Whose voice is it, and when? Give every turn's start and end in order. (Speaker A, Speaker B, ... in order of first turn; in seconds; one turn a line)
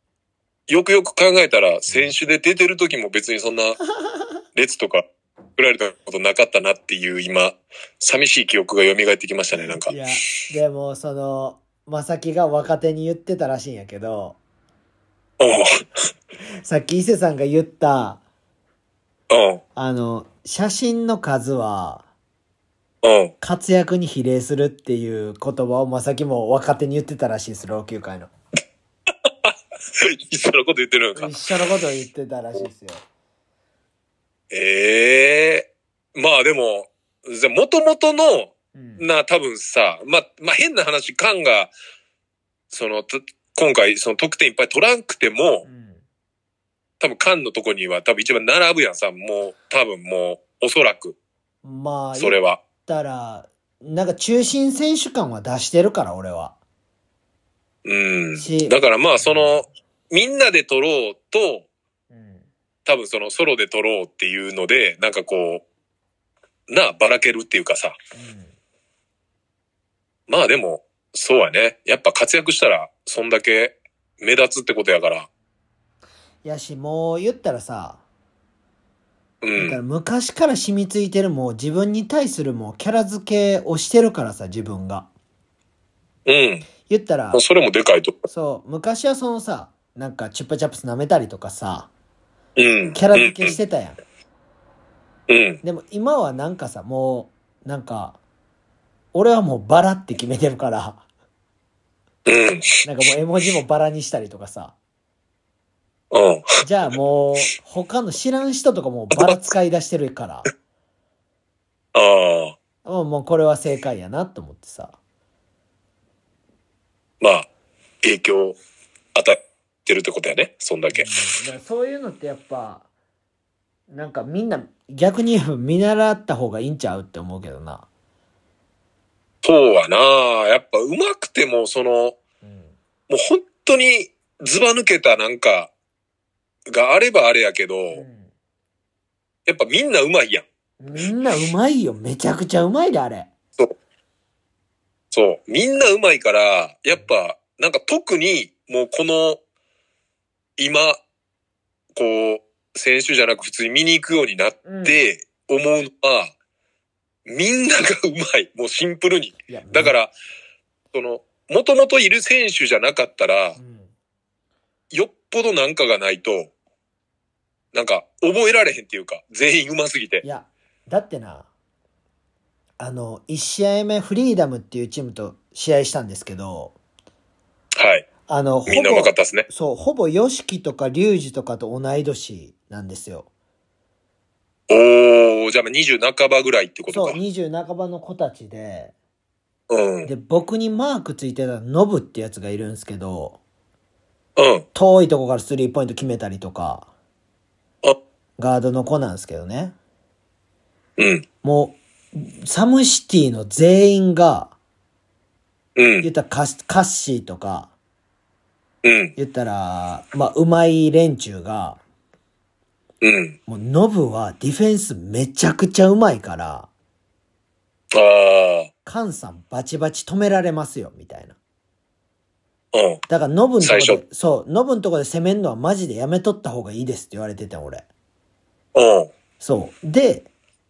Speaker A: 0.7-3.8
Speaker A: 4.5-5.0
Speaker A: 5.6-9.9
Speaker B: 9.8-14.4
Speaker A: 15.4-15.8
Speaker B: 16.6-18.2
Speaker A: 19.3-19.6
Speaker B: 19.8-22.1
Speaker A: 23.0-23.3
Speaker B: 23.4-28.3
Speaker A: 29.2-31.3
Speaker B: 31.1-33.0
Speaker A: 34.5-41.7
Speaker B: 38.7-39.0
Speaker A: 42.7-45.6
Speaker B: 45.6-46.0
Speaker A: 47.0-51.1
Speaker B: 51.6-56.5
Speaker A: 52.1-52.6
Speaker A: 57.8-61.6
Speaker B: 58.4-59.5
Speaker B: 62.1-62.5
Speaker A: 62.9-65.6
Speaker A: 66.7-68.0
Speaker B: 68.1-68.5
Speaker A: 70.3-75.3
Speaker B: 76.4-78.0
Speaker A: 79.4-79.8
Speaker B: 79.5-85.1
Speaker A: 86.2-86.7
Speaker B: 86.9-87.4
Speaker A: 87.3-88.2
Speaker B: 88.3-91.9
Speaker A: 92.5-93.6
Speaker B: 92.9-94.0
Speaker A: 95.3-95.6
Speaker B: 95.6-98.2
Speaker B: 99.1-101.0
Speaker A: 102.2-102.8
Speaker B: 102.8-104.8
Speaker A: 106.1-106.6
Speaker B: 106.6-110.5
Speaker A: 109.1-109.4
Speaker A: 111.9-112.6
Speaker B: 112.8-115.0
Speaker A: 117.2-117.5
Speaker A: 118.0-118.6
Speaker A: 119.1-121.2
Speaker B: 120.9-122.9
Speaker B: 123.9-127.9
Speaker A: 129.4-132.2
Speaker B: 132.4-132.8
Speaker A: 133.1-135.7
Speaker A: 136.7-138.0
Speaker B: 137.9-138.3
Speaker A: 139.4-140.4
Speaker B: 140.8-143.3
Speaker A: 145.1-149.4
Speaker A: 150.6-151.0
Speaker A: 151.9-156.3
Speaker B: 154.6-155.0
Speaker A: 157.2-160.1
Speaker B: 159.5-159.9
Speaker A: 160.9-163.6
Speaker B: 163.6-163.9
Speaker A: 164.9-166.5
Speaker A: 167.7-170.2
Speaker B: 170.2-171.5
Speaker B: 172.8-176.8
Speaker A: 177.8-178.1
Speaker B: 178.3-183.3
Speaker A: 178.7-179.5
Speaker A: 184.7-187.2
Speaker B: 186.9-188.9
Speaker A: 189.7-190.1
Speaker B: 190.0-193.4
Speaker A: 194.3-194.7
Speaker B: 194.7-196.9
Speaker B: 198.4-199.7
Speaker A: 201.0-201.2
Speaker B: 201.4-204.5
Speaker A: 205.8-206.1
Speaker B: 206.0-207.7
Speaker A: 208.8-209.1
Speaker B: 209.2-211.8
Speaker A: 213.0-213.4
Speaker B: 213.5-216.7
Speaker A: 217.9-218.7
Speaker B: 218.8-221.3
Speaker A: 222.7-223.0
Speaker B: 223.1-227.8
Speaker A: 223.6-224.0
Speaker A: 228.7-229.1
Speaker B: 229.4-230.3